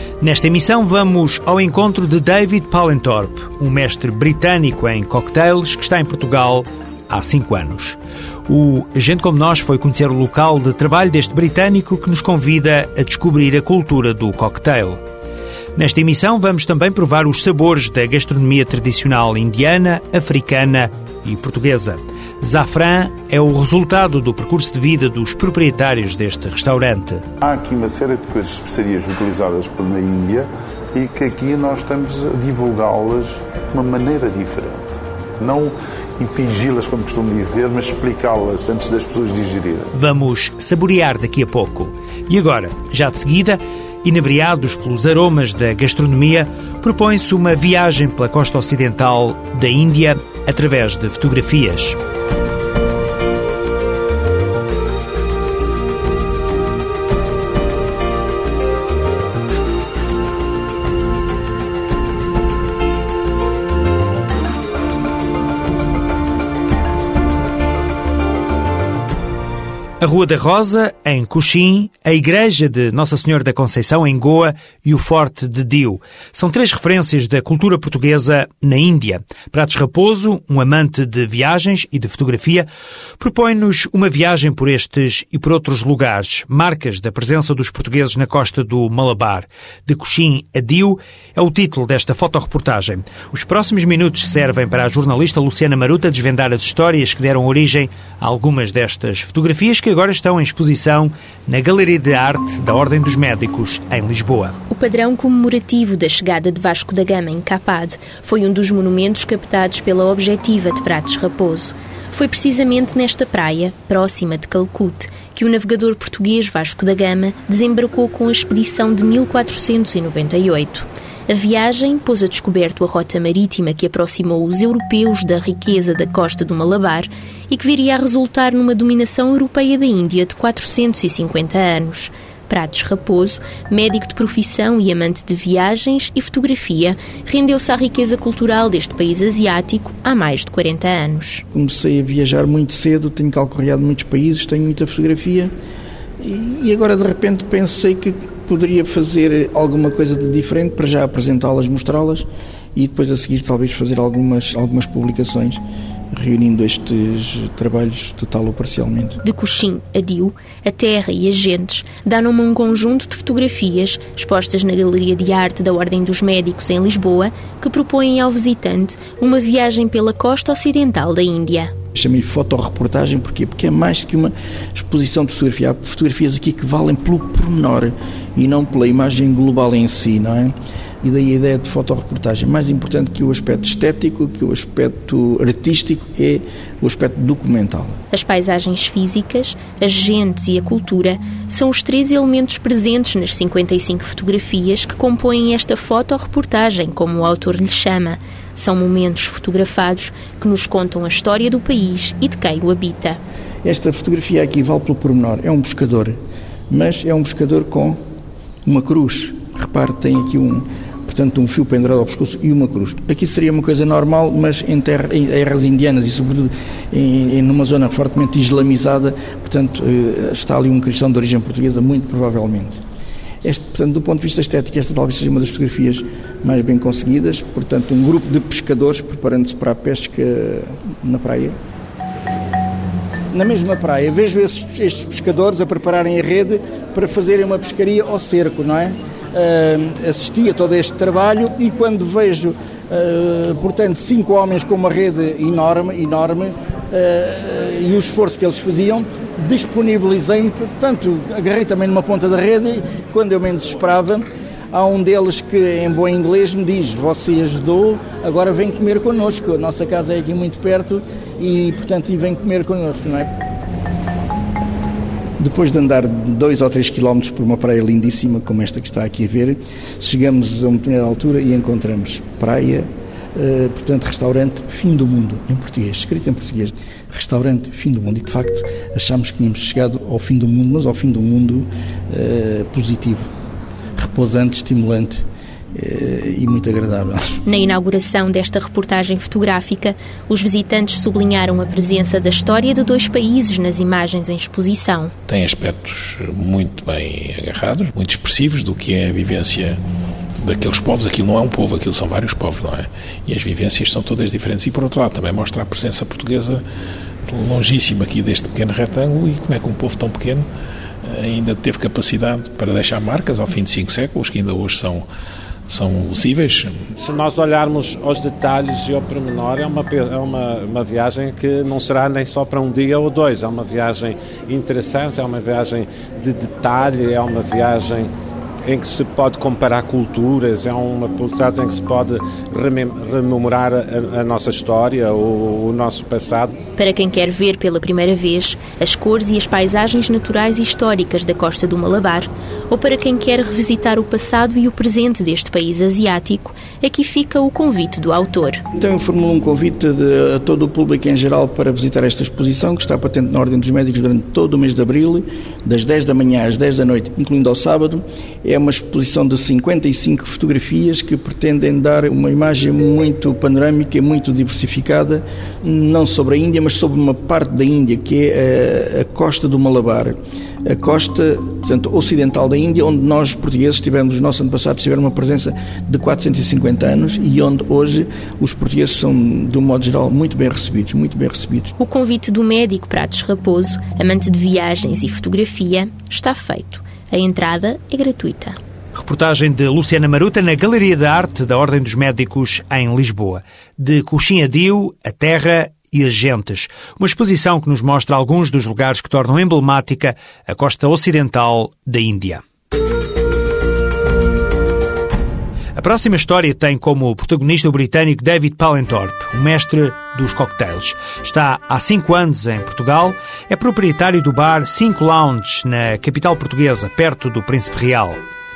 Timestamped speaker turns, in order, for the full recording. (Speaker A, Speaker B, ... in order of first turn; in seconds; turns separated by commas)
Speaker A: 0.2-15.0, Speaker A: 15.8-27.2, Speaker B: 27.4-39.9, Speaker A: 39.9-52.0, Speaker A: 70.0-82.7, Speaker A: 83.2-104.6, Speaker C: 104.7-141.4, Speaker D: 141.5-145.5, Speaker D: 146.2-155.6, Speaker D: 156.1-159.2, Speaker C: 159.2-171.7, Speaker D: 171.9-188.0, Speaker C: 188.1-203.2, Speaker D: 203.6-206.2, Speaker D: 206.7-208.0, Speaker D: 208.7-222.8, Speaker D: 223.4-231.6, Speaker D: 233.3-263.3, Speaker D: 265.4-283.3, Speaker D: 284.0-287.3, Speaker C: 287.5-295.1, Speaker E: 295.3-299.8, Speaker E: 300.4-306.6, Speaker E: 307.3-310.5, Speaker E: 311.0-315.1, Speaker E: 315.7-316.9, Speaker F: 317.0-328.1, Speaker F: 328.6-336.6, Speaker C: 336.8-348.6, Speaker D: 348.8-381.7, Speaker C: 381.8-388.6, Speaker A: 388.9-402.4, Speaker A: 405.8-418.2